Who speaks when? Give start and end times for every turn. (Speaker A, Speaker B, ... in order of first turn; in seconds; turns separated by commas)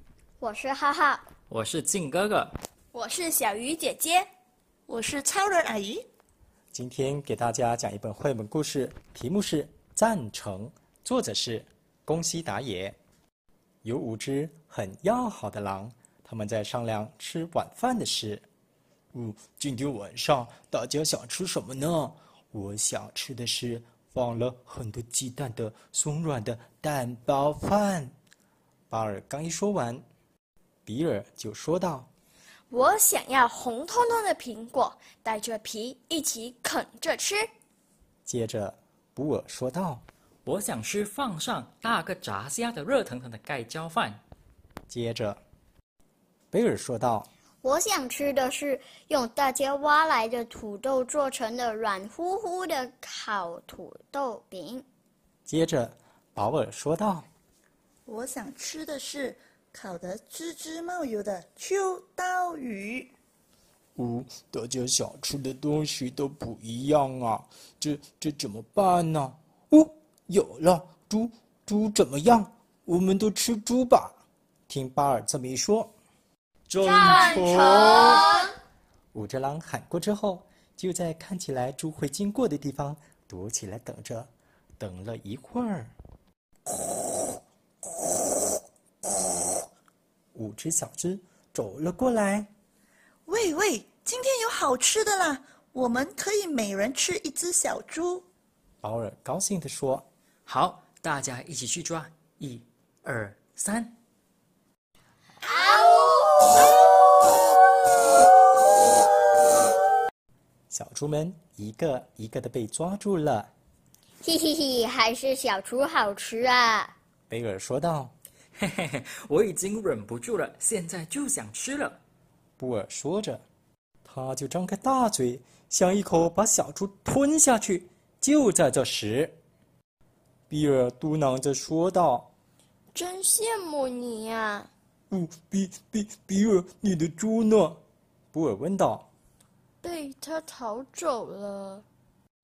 Speaker A: 0.4-1.2, Speaker B: 1.5-2.6, Speaker C: 2.9-4.3, Speaker D: 4.9-6.0, Speaker E: 6.7-13.0, Speaker E: 13.8-18.4, Speaker E: 19.1-28.1, Speaker E: 28.9-30.0, Speaker E: 30.9-32.1, Speaker C: 32.7-37.5, Speaker E: 38.2-40.0, Speaker B: 40.4-44.2, Speaker E: 44.9-45.4, Speaker E: 46.5-47.3, Speaker A: 47.6-54.8, Speaker E: 55.5-57.3, Speaker D: 58.0-63.1, Speaker E: 64.0-74.1, Speaker E: 74.7-75.9, Speaker E: 76.7-78.3, Speaker C: 76.8-78.3, Speaker E: 79.1-85.9, Speaker E: 90.3-92.5, Speaker D: 93.2-98.2, Speaker E: 98.8-100.0, Speaker B: 100.5-103.9, Speaker A: 105.4-106.1, Speaker E: 110.7-113.5, Speaker A: 114.2-116.9, Speaker E: 117.3-118.1, Speaker B: 118.6-122.0, Speaker E: 122.6-123.4, Speaker E: 124.0-129.3, Speaker E: 130.5-132.3, Speaker C: 132.9-134.7, Speaker E: 135.1-137.8, Speaker E: 138.3-139.1, Speaker C: 139.8-141.8